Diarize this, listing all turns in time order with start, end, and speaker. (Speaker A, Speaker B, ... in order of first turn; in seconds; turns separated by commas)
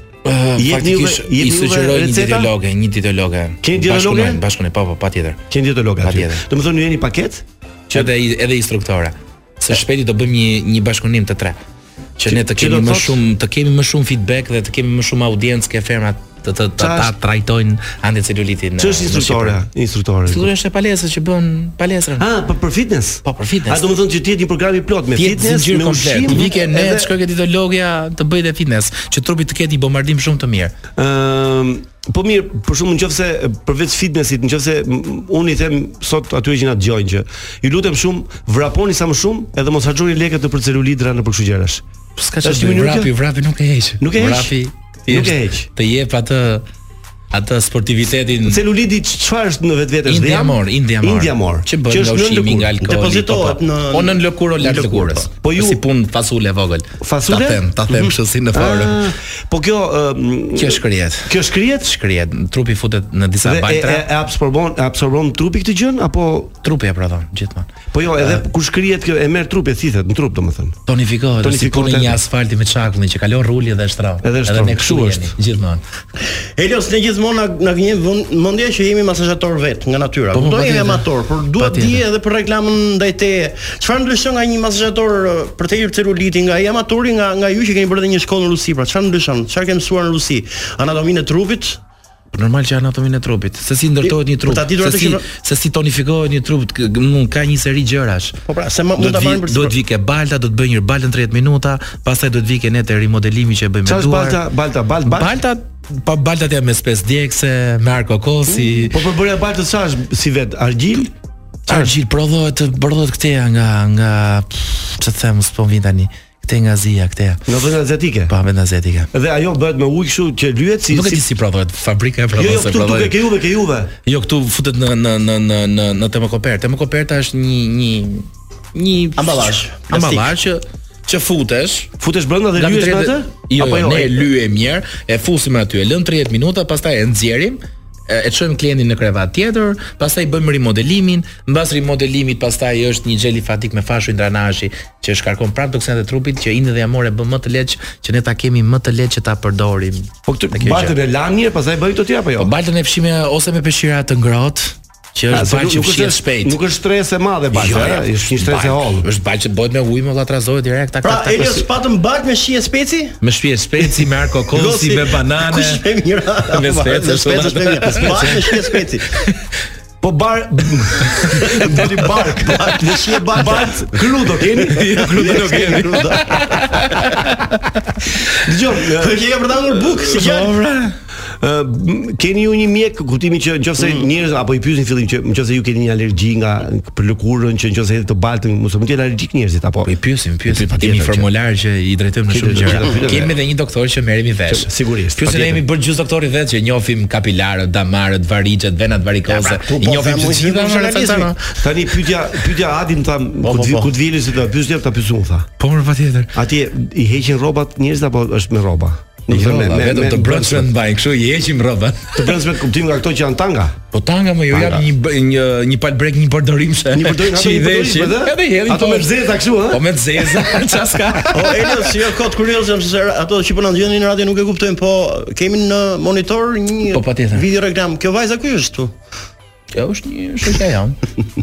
Speaker A: 0.2-5.4, Speaker B: 0.6-2.5, Speaker B: 3.6-4.4, Speaker B: 5.5-8.1, Speaker A: 6.0-6.4, Speaker A: 7.9-11.6, Speaker A: 12.2-19.6, Speaker B: 12.2-13.2, Speaker B: 16.8-17.1, Speaker B: 18.8-20.5, Speaker A: 20.3-22.3, Speaker B: 22.2-27.1, Speaker A: 23.2-23.9, Speaker A: 25.1-30.7, Speaker B: 31.0-41.8, Speaker A: 42.2-46.6, Speaker B: 42.4-43.1, Speaker B: 44.0-44.5, Speaker B: 45.1-45.7, Speaker A: 47.3-48.6, Speaker B: 48.5-52.7, Speaker A: 50.1-59.0, Speaker C: 52.8-55.3, Speaker B: 55.4-55.8, Speaker B: 57.0-57.6, Speaker B: 58.5-61.9, Speaker A: 60.5-64.0, Speaker B: 63.4-66.5, Speaker A: 66.6-68.4, Speaker B: 67.9-70.8, Speaker A: 70.9-75.8, Speaker B: 71.4-72.2, Speaker B: 74.2-75.3, Speaker C: 76.6-91.8, Speaker A: 80.3-81.0, Speaker A: 81.6-82.0, Speaker A: 92.3-98.3, Speaker C: 94.0-95.2, Speaker C: 98.5-99.7, Speaker A: 99.0-104.4, Speaker B: 103.8-105.3, Speaker A: 105.0-109.0, Speaker C: 108.5-108.9, Speaker B: 108.9-111.1, Speaker B: 111.7-111.9, Speaker A: 111.7-117.4, Speaker B: 117.5-118.3, Speaker A: 118.3-119.1, Speaker B: 119.1-121.2, Speaker A: 120.9-123.1, Speaker B: 122.3-123.9, Speaker A: 124.0-131.9, Speaker C: 129.2-130.3, Speaker B: 132.0-134.2, Speaker A: 132.6-150.9, Speaker B: 150.3-152.5, Speaker A: 152.4-156.6, Speaker B: 155.3-159.1, Speaker A: 157.5-161.6, Speaker C: 161.0-163.2, Speaker A: 163.2-165.8, Speaker C: 164.5-169.1, Speaker A: 166.5-168.7, Speaker B: 170.0-175.6, Speaker A: 171.2-171.5, Speaker C: 171.4-174.3, Speaker A: 174.7-177.6, Speaker C: 174.9-177.0, Speaker B: 178.4-180.1, Speaker C: 179.0-180.5, Speaker A: 180.1-180.9, Speaker B: 181.4-189.9, Speaker C: 183.8-184.1, Speaker A: 189.8-201.4, Speaker B: 190.4-191.3, Speaker B: 192.3-193.4, Speaker B: 194.5-195.6, Speaker C: 199.2-201.3, Speaker B: 201.6-205.5, Speaker C: 203.4-203.9, Speaker A: 205.6-206.3, Speaker B: 206.3-210.7, Speaker A: 209.3-212.3, Speaker B: 212.1-213.8, Speaker A: 213.9-221.9, Speaker B: 214.5-214.8, Speaker B: 216.9-219.8, Speaker C: 221.3-228.9, Speaker A: 226.9-227.4, Speaker A: 229.7-231.0